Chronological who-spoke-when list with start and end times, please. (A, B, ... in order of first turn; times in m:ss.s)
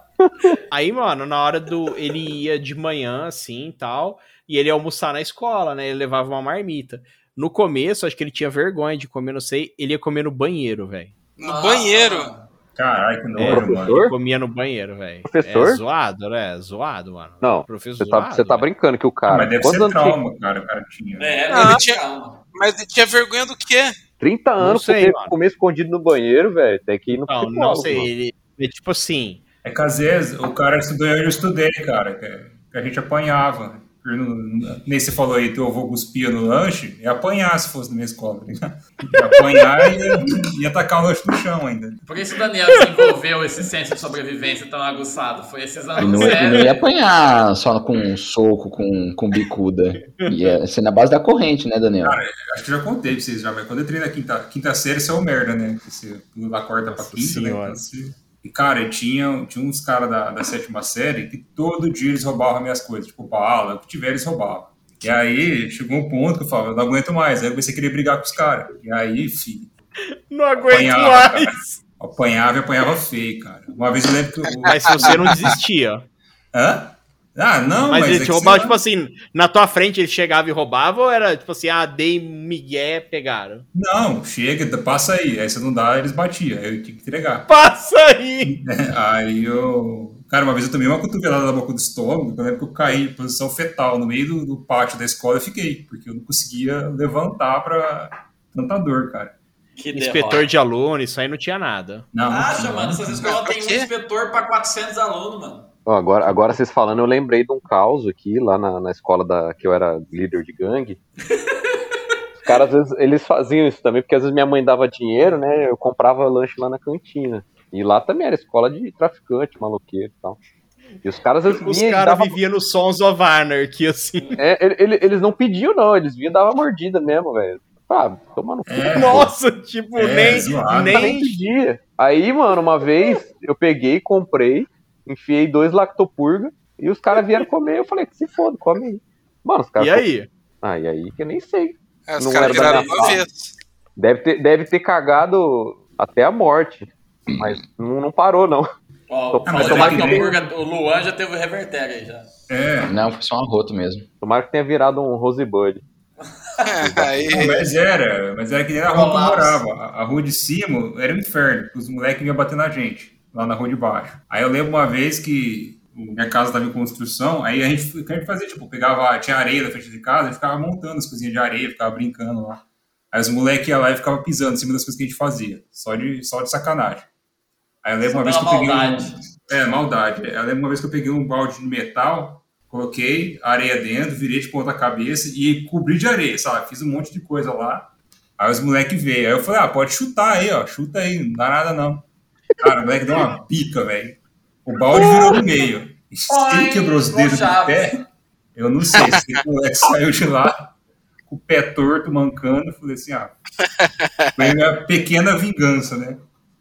0:00.2-0:00.6 A
0:00.7-0:11.1 B
0:11.4-0:12.3 C
0:11.4-0:12.5 D
0:12.8-0:14.0 E
0:13.4-0:18.7 B
0:13.5-0:14.1 A
0:15.2-0:15.8 A
0:17.4-0:20.2 A
0:19.3-0:21.5 E
0:21.2-0:22.4 D
0:21.5-0:22.0 C
0:22.6-0:24.0 C
0:24.2-0:28.1 A
0:24.6-0:25.4 B
0:27.2-0:29.4 B
0:29.6-0:42.0 E
0:42.1-0:46.9 D
0:46.0-0:52.2 F
0:46.0-0:46.7 B
0:50.2-0:50.6 B
0:52.0-1:09.7 E
0:56.9-0:57.8 B
1:10.3-1:11.8 B
1:10.6-1:15.4 E
1:14.7-1:16.0 B
1:16.5-1:18.8 E
1:17.9-1:23.7 B
1:23.7-1:27.5 E
1:27.5-1:28.5 B
1:28.4-1:39.3 E
1:39.8-1:40.5 D
1:39.9-1:42.1 B
1:42.1-1:43.3 E
1:42.3-1:45.7 D
1:43.2-1:43.9 C
1:45.9-1:51.0 A
1:51.3-1:51.8 D
1:52.4-2:00.4 A
2:01.0-2:02.4 A
2:01.5-2:04.4 B
2:04.4-2:09.3 A
2:08.7-2:09.3 E
2:08.9-2:11.4 B
2:10.0-2:11.1 E
2:10.8-2:20.0 A
2:19.8-2:20.3 B
2:20.6-2:23.2 A
2:22.1-2:23.5 C
2:22.4-2:23.2 D
2:24.0-2:28.7 A
2:29.1-2:32.3 D
2:29.3-2:30.4 A
2:29.5-2:30.3 E
2:32.5-2:32.9 E
2:32.9-2:34.1 F
2:34.2-2:35.8 A
2:36.6-2:37.6 C
2:36.8-2:37.6 A
2:37.3-2:57.1 E
2:38.9-2:39.6 D
2:57.8-3:12.0 E
2:58.1-2:59.2 D
3:12.6-3:18.0 E
3:16.3-3:18.0 D
3:18.6-3:20.7 E
3:18.9-3:19.3 C
3:21.3-3:23.3 E
3:24.2-3:24.6 C
3:24.4-3:26.2 E